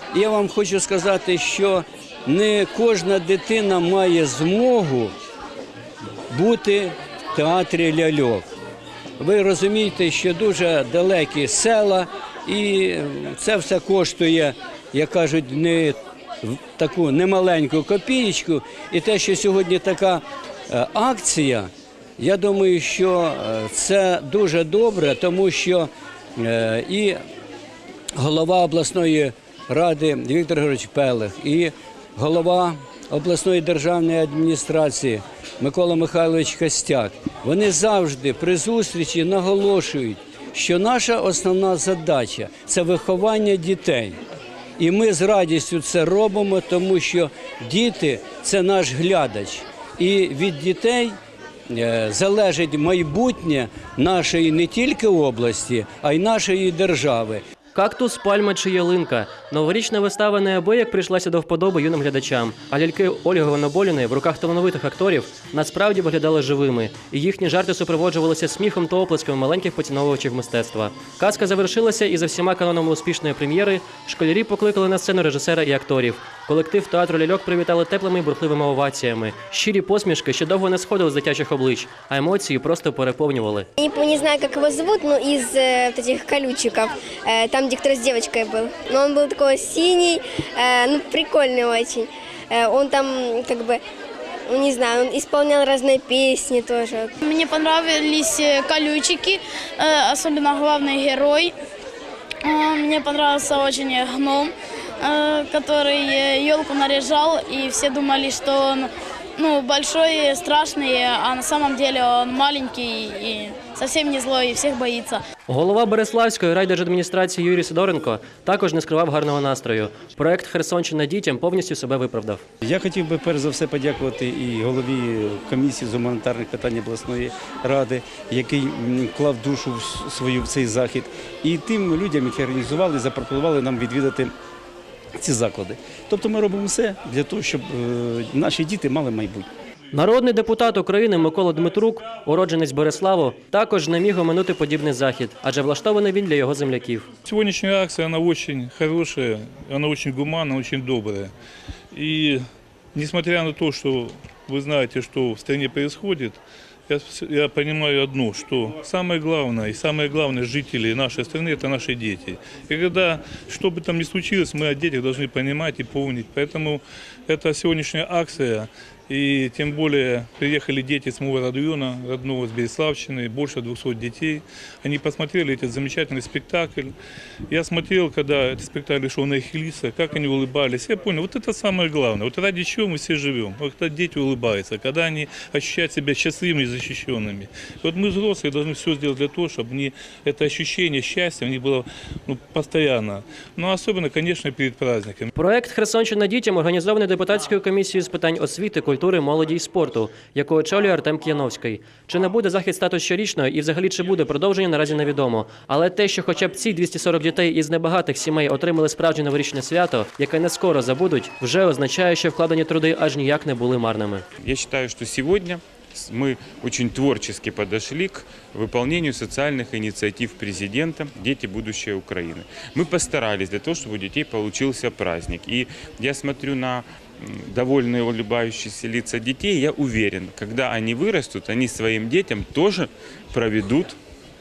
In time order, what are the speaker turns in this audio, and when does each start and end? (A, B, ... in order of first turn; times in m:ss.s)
0:00.1-0:05.1 A
0:06.3-0:08.5 A
0:09.2-0:27.2 A
0:28.2-0:44.2 A
0:44.8-0:51.2 A
0:51.7-0:57.4 A
0:57.8-1:23.7 B
1:23.8-1:33.8 C
1:34.5-1:37.1 C
1:37.2-1:41.5 D
1:42.4-1:55.2 D
1:55.5-2:02.4 B
2:02.6-2:14.3 E
2:15.2-2:19.5 E
2:19.9-2:27.1 B
2:27.2-2:31.3 F
2:31.9-2:32.4 F
2:32.9-2:56.9 F
2:57.5-3:15.3 F
3:15.4-3:34.2 B
3:34.4-3:54.0 G